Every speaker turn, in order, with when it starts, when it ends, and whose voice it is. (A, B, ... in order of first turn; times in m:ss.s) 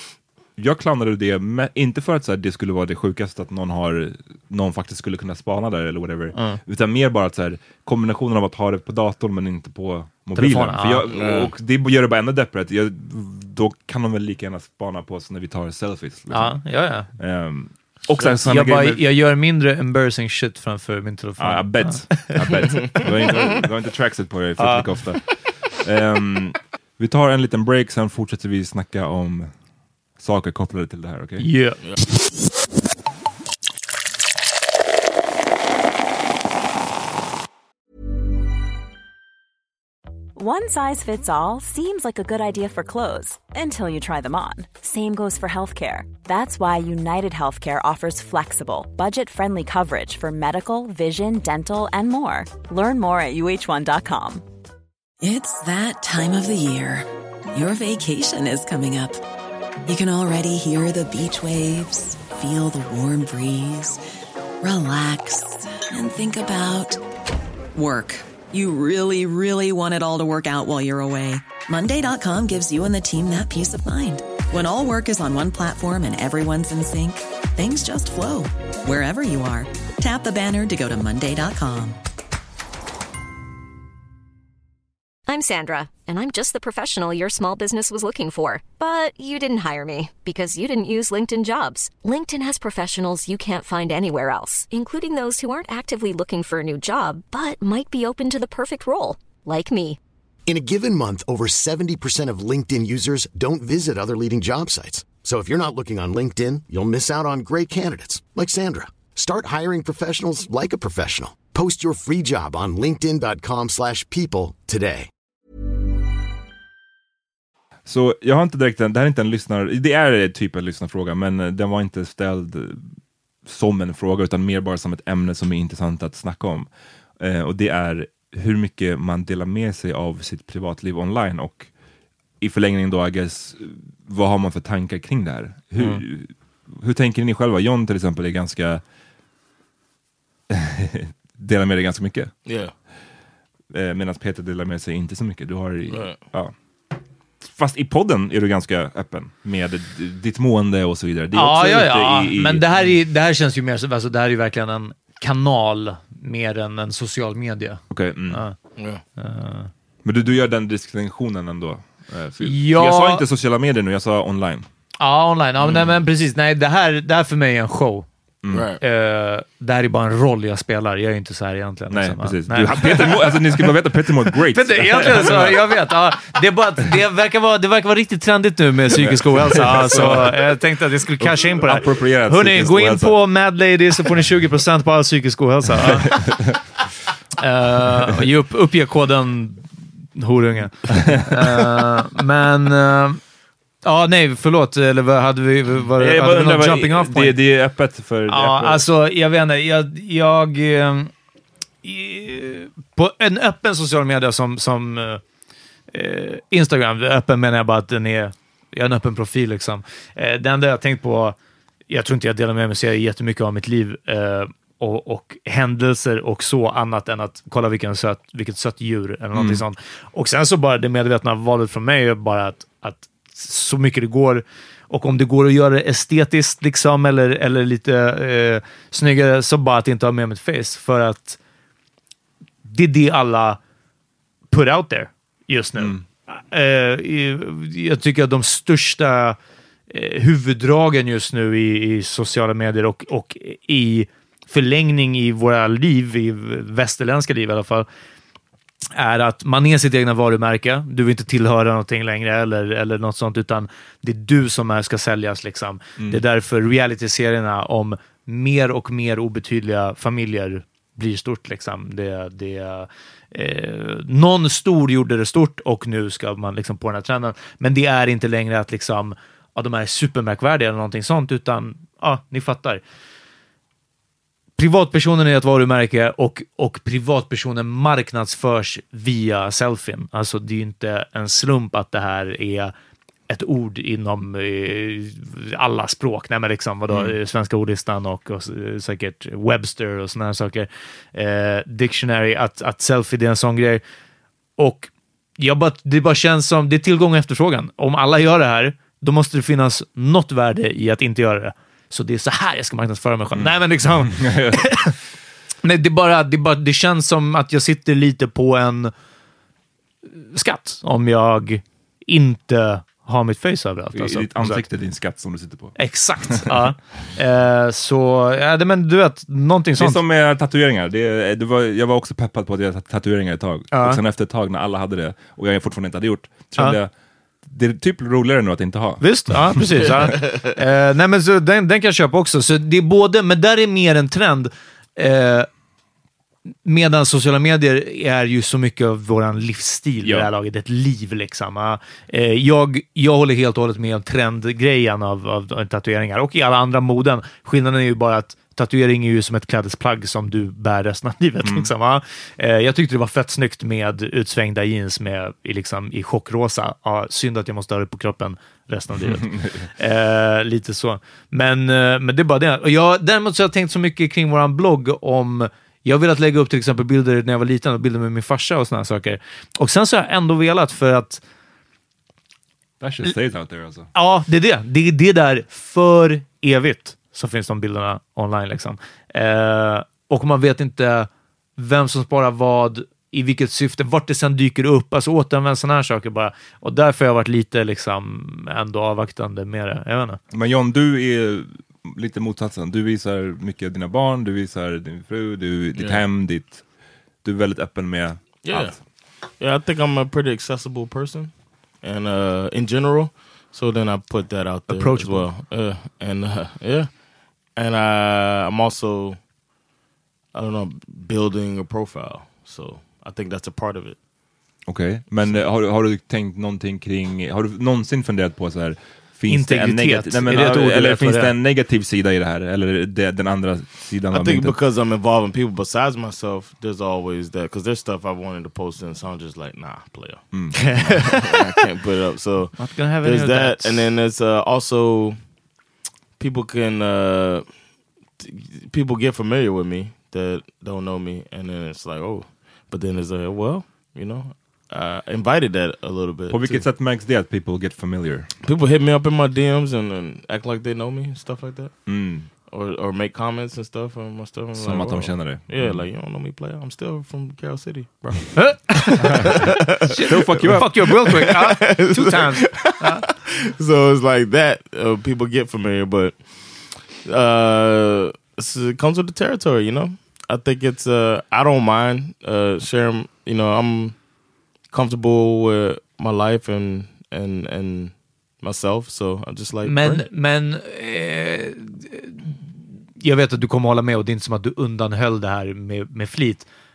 0:00.6-0:16.6 A
0:06.3-0:06.6 B
0:10.4-0:11.1 B
0:11.1-0:11.5 C
0:16.3-0:17.1 B
0:17.2-0:19.0 A
0:18.1-0:18.4 C
0:18.4-0:22.7 B
0:21.4-0:29.5 A
0:24.6-0:24.9 B
0:30.2-0:31.5 A
0:31.4-0:31.8 B
0:40.4-0:54.4 D
0:55.2-0:59.2 E
0:59.8-1:04.0 E
1:04.6-1:07.0 E
1:07.7-1:22.0 E
1:25.3-1:40.0 F
1:40.5-1:55.1 G
1:57.8-2:02.8 A
2:03.4-2:06.7 A
2:07.2-2:11.7 A
2:12.4-2:18.8 A
2:20.5-2:22.3 A
2:22.4-2:22.7 C
2:23.7-2:26.5 A
2:25.9-2:26.2 C
2:27.4-2:32.9 A
2:31.3-2:38.6 B
2:37.9-2:38.4 A
2:38.8-2:39.0 C
2:39.2-2:39.7 B
2:40.0-2:44.7 A
2:42.4-2:43.2 B
2:45.0-2:48.1 B
2:48.4-2:48.7 A
2:48.5-2:48.8 C
2:48.8-2:53.7 B
2:51.9-2:55.7 A
2:54.4-3:06.2 B
2:59.0-3:00.5 A
3:01.2-3:03.2 A
3:06.0-3:06.6 A
3:07.4-3:13.2 B
3:10.9-3:11.3 A
3:13.8-3:17.4 B
3:15.9-3:18.8 A
3:18.3-3:21.1 B
3:21.8-3:25.2 B
3:25.9-3:31.4 B
3:31.9-3:51.4 B
3:39.3-3:39.6 A
3:52.6-3:53.6 B
3:54.5-3:59.4 B
3:55.8-3:56.0 A
3:59.9-4:07.9 B
4:09.0-4:32.8 B
4:34.6-4:42.7 B
4:43.3-4:53.8 B
4:46.9-4:47.1 A
4:54.6-5:04.9 B
5:03.3-5:04.9 A
5:05.6-5:08.9 B
5:10.1-5:14.6 B
5:13.9-5:16.6 A
5:15.8-5:20.0 B
5:19.8-5:26.9 A
5:23.7-5:24.0 B
5:27.4-5:29.9 A
5:29.0-5:35.5 B
5:29.8-5:30.4 C
5:36.6-6:11.2 B
5:40.0-5:40.3 A
5:51.4-5:51.7 A
5:59.0-5:59.7 A
6:12.8-6:13.9 A
6:13.9-6:30.2 B
6:30.3-6:36.6 A
6:35.8-6:36.0 C
6:37.2-6:38.8 A
6:38.4-6:38.7 C
6:39.3-6:46.9 C
6:44.7-6:45.3 B
6:47.6-6:49.2 C
6:50.3-6:54.0 C
6:54.7-7:04.6 A
6:59.3-7:01.3 B
7:04.1-7:15.2 C
7:10.3-7:10.8 A
7:12.6-7:13.8 B
7:16.2-7:17.5 C
7:18.2-7:26.6 C
7:26.3-7:28.3 A
7:28.4-7:31.7 C
7:31.8-7:32.3 A
7:32.5-7:54.0 C
7:34.6-7:35.8 A
7:38.4-7:39.1 B
7:39.0-7:39.5 A
7:39.9-7:43.0 B
7:40.1-7:40.9 A
7:54.7-8:00.0 C
7:59.6-8:06.5 B